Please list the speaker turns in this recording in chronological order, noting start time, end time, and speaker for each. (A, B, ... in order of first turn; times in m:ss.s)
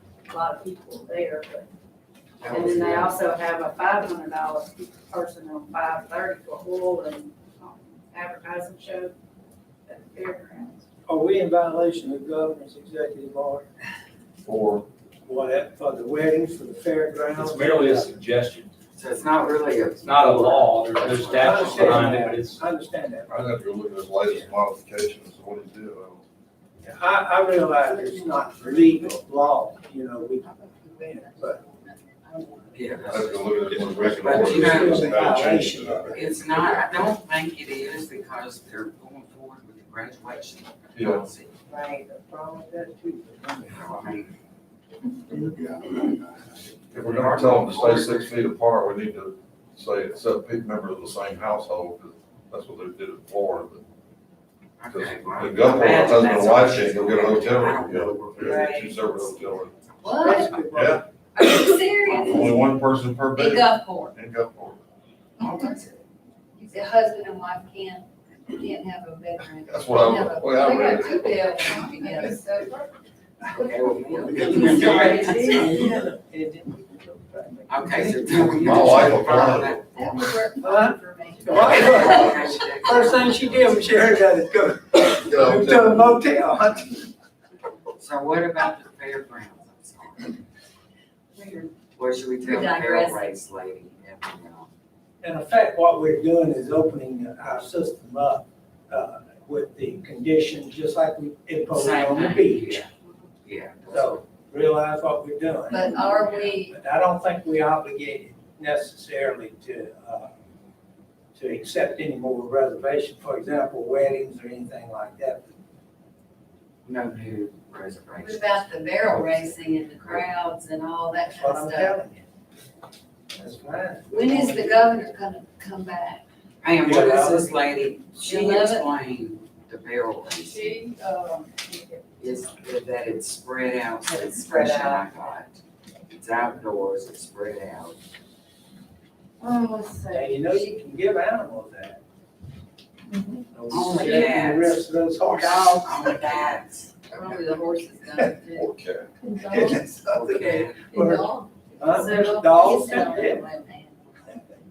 0:00.3-0:01.7 A
0:02.4-0:03.2 B
0:02.5-0:09.1 A
0:09.8-0:10.8 A
0:11.1-0:13.6 C
0:14.4-0:14.9 D
0:15.2-0:18.1 C
0:17.3-0:18.7 E
0:18.9-0:22.1 B
0:20.0-0:22.6 E
0:21.3-0:23.5 C
0:23.3-0:26.2 D
0:26.8-0:31.6 C
0:27.8-0:29.1 F
0:30.4-0:33.5 F
0:32.7-0:35.4 B
0:33.1-0:37.0 D
0:34.3-0:36.2 C
0:36.1-0:41.5 B
0:40.9-0:41.2 D
0:42.8-0:43.0 C
0:43.6-0:44.3 B
0:46.9-0:53.8 D
0:46.9-0:48.3 B
0:54.8-1:00.5 B
0:54.9-0:59.7 D
1:00.0-1:00.7 F
1:00.2-1:01.0 C
1:00.7-1:01.0 D
1:01.3-1:02.7 F
1:02.0-1:02.4 B
1:02.0-1:04.8 D
1:03.4-1:04.1 F
1:05.4-1:06.0 B
1:06.6-1:12.8 F
1:09.6-1:11.3 D
1:11.4-1:12.9 A
1:13.5-1:15.8 B
1:13.9-1:19.1 C
1:14.0-1:16.0 F
1:17.7-1:20.5 B
1:18.3-1:19.8 D
1:19.9-1:22.5 F
1:20.6-1:27.1 C
1:21.4-1:24.2 B
1:25.2-1:26.2 D
1:28.0-1:30.4 B
1:31.4-1:31.7 F
1:31.9-1:34.7 B
1:32.4-1:33.3 F
1:35.2-1:42.8 C
1:41.7-1:42.9 B
1:43.4-1:44.2 B
1:43.9-1:50.3 C
1:45.7-1:46.8 F
1:51.3-1:55.5 C
1:56.8-2:00.2 B
1:58.2-2:02.0 F
2:01.2-2:02.2 C
2:03.3-2:05.0 C
2:04.1-2:06.2 F
2:06.6-2:10.7 B
2:06.8-2:07.6 C
2:08.2-2:08.9 F
2:10.4-2:12.6 A
2:12.2-2:15.6 B
2:16.1-2:18.0 B
2:19.4-2:20.3 A
2:20.1-2:22.0 C
2:23.1-2:23.4 F
2:23.5-2:26.3 C
2:23.7-2:24.8 B
2:25.3-2:26.5 F
2:25.8-2:27.0 B
2:27.1-2:28.7 F
2:28.4-2:29.1 D
2:29.2-2:29.8 A
2:29.4-2:33.5 C
2:30.0-2:31.0 B
2:30.9-2:34.1 F
2:31.9-2:32.8 A
2:34.2-2:34.5 C